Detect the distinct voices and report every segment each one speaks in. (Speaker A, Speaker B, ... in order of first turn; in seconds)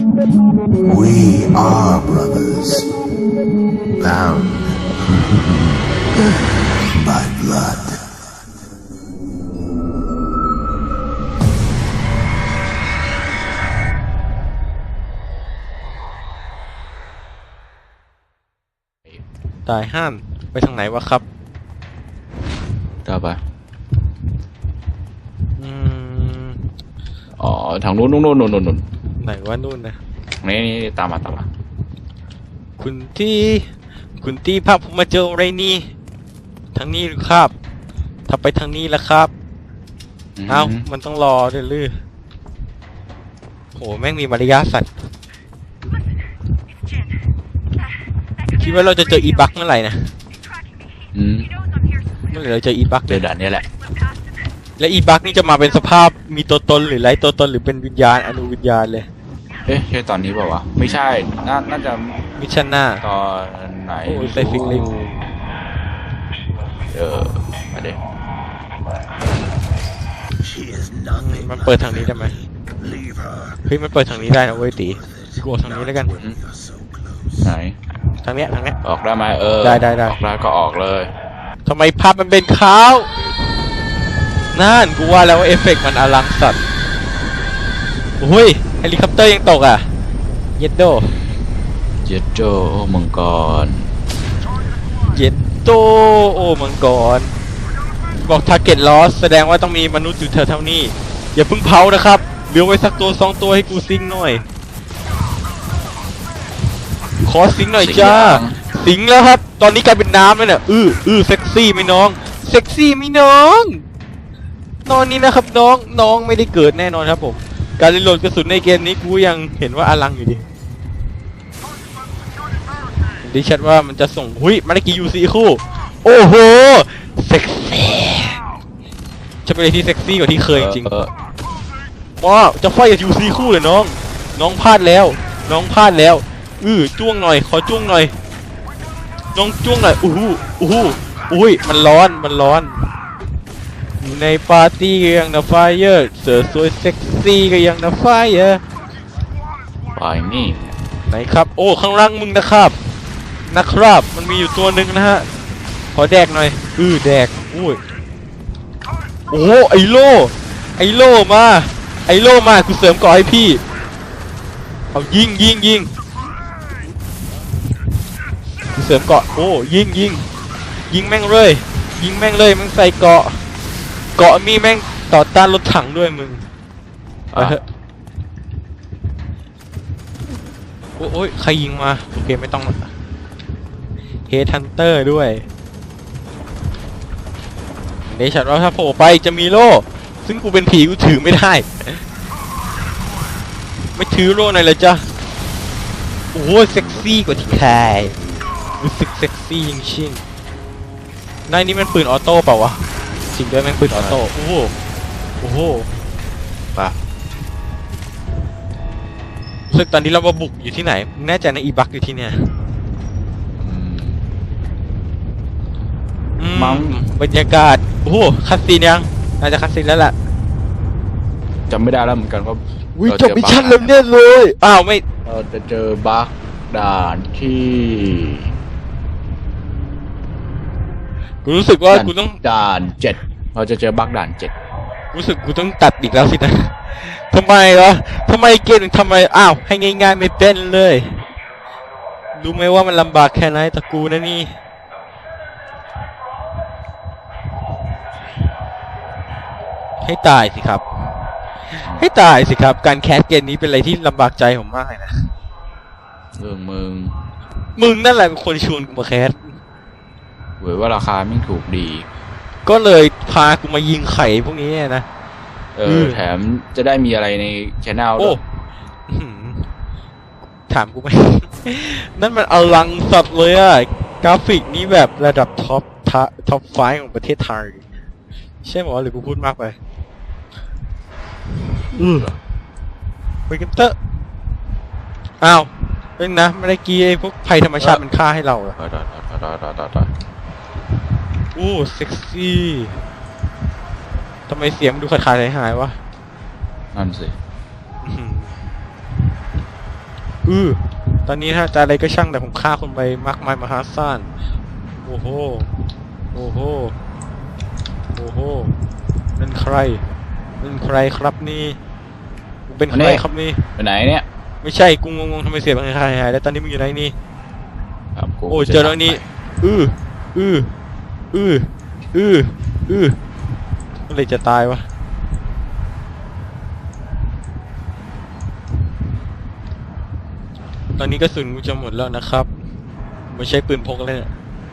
Speaker A: 0.8-2.9, 4.0-5.7, 6.9-8.0
Speaker B: 19.6-21.2, 25.6-26.7, 29.2-30.0, 32.8-33.7, 34.2-35.9, 36.7-37.5, 38.3-39.3, 40.5-41.9, 43.7-45.0, 48.5-50.1, 52.3-53.2, 54.8-59.1, 62.4-63.0, 64.0-64.9, 71.0-72.3, 73.6-76.1, 78.2-78.8, 79.6-80.2, 81.6-83.1, 84.5-86.6, 88.2-89.9, 90.6-91.2, 95.1-97.3, 98.2-104.4, 107.2-113.8, 114.8-120.5, 123.2-128.4, 129.4-130.9, 132.2-138.1, 139.3-142.9, 144.0-148.6, 151.1-152.7, 153.5-155.3, 155.9-157.8, 159.3-163.6, 164.9-165.9, 168.7-170.2, 170.9-173.4, 174.2-176.4, 177.3-177.6, 181.0-182.9, 184.3-185.4, 188.1-192.0, 193.9-195.1, 196.3-198.1, 198.8-200.2, 201.5-204.7, 205.4-205.9, 209.7-212.5, 216.4-220.1, 222.9-225.0, 231.4-232.4, 235.1-241.2, 242.3-244.5, 250.0-250.8, 251.8-255.3, 257.8-259.5, 262.6-265.1, 265.8-266.2, 269.1-269.7, 270.7-277.8, 278.6-279.7, 281.9-282.3, 283.5-283.9, 285.4-288.8, 291.5-293.0, 294.5-295.9, 298.0-298.5, 300.4-304.3, 305.0-305.7, 306.3-306.9, 308.1-308.7, 309.4-310.0, 310.6-311.8, 312.7-313.6, 314.6-317.1, 318.5-320.7, 321.3-323.2, 324.1-324.8, 330.9-332.5, 333.3-334.3
Speaker C: 23.0-23.4, 27.4-28.8, 30.4-31.5, 40.4-40.9, 51.1-51.5, 53.1-53.6, 59.6-62.2, 63.0-65.2, 66.9-68.0, 77.4-77.8, 78.8-81.1, 92.0-93.9, 107.8-108.6, 130.5-131.1, 149.9-150.7, 177.3-177.6, 203.9-204.2, 213.6-214.2, 216.5-217.0, 221.7-223.9, 225.2-228.5, 231.9-234.5, 251.8-252.1, 256.4-257.1, 260.6-262.1, 265.7-268.4, 288.8-290.1, 296.9-297.3, 312.9-313.2, 313.8-314.2, 318.1-319.3